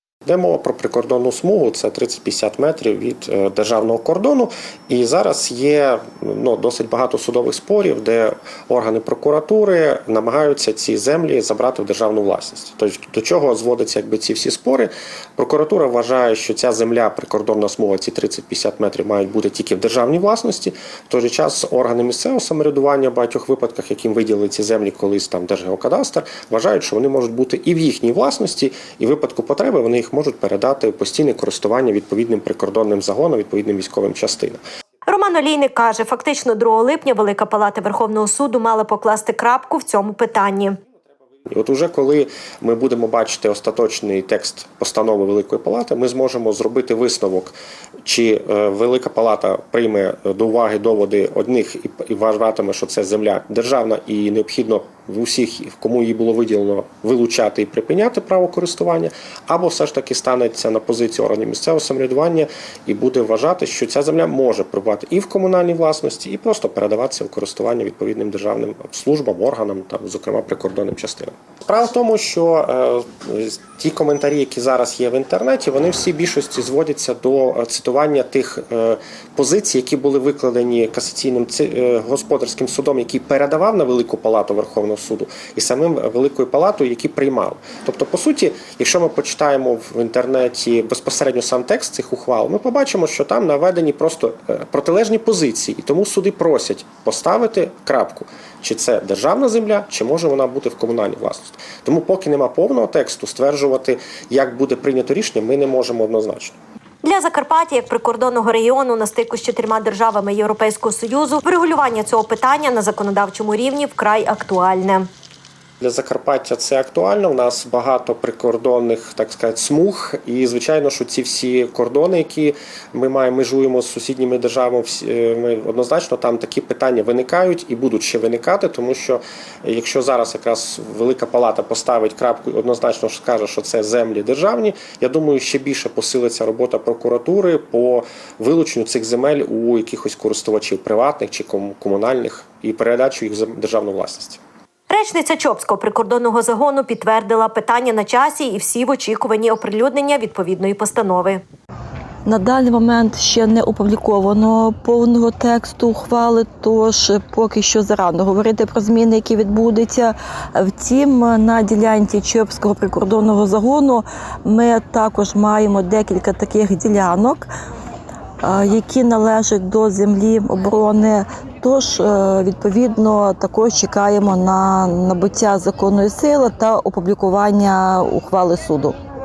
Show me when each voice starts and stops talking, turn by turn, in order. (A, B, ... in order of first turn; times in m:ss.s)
0:00.2-0:34.6 A
0:35.1-0:40.8 B
0:41.5-1:46.6 A
1:47.0-1:55.1 B
1:55.8-2:24.4 A
2:24.9-2:31.4 B
2:32.2-2:47.5 C
2:48.4-2:59.0 C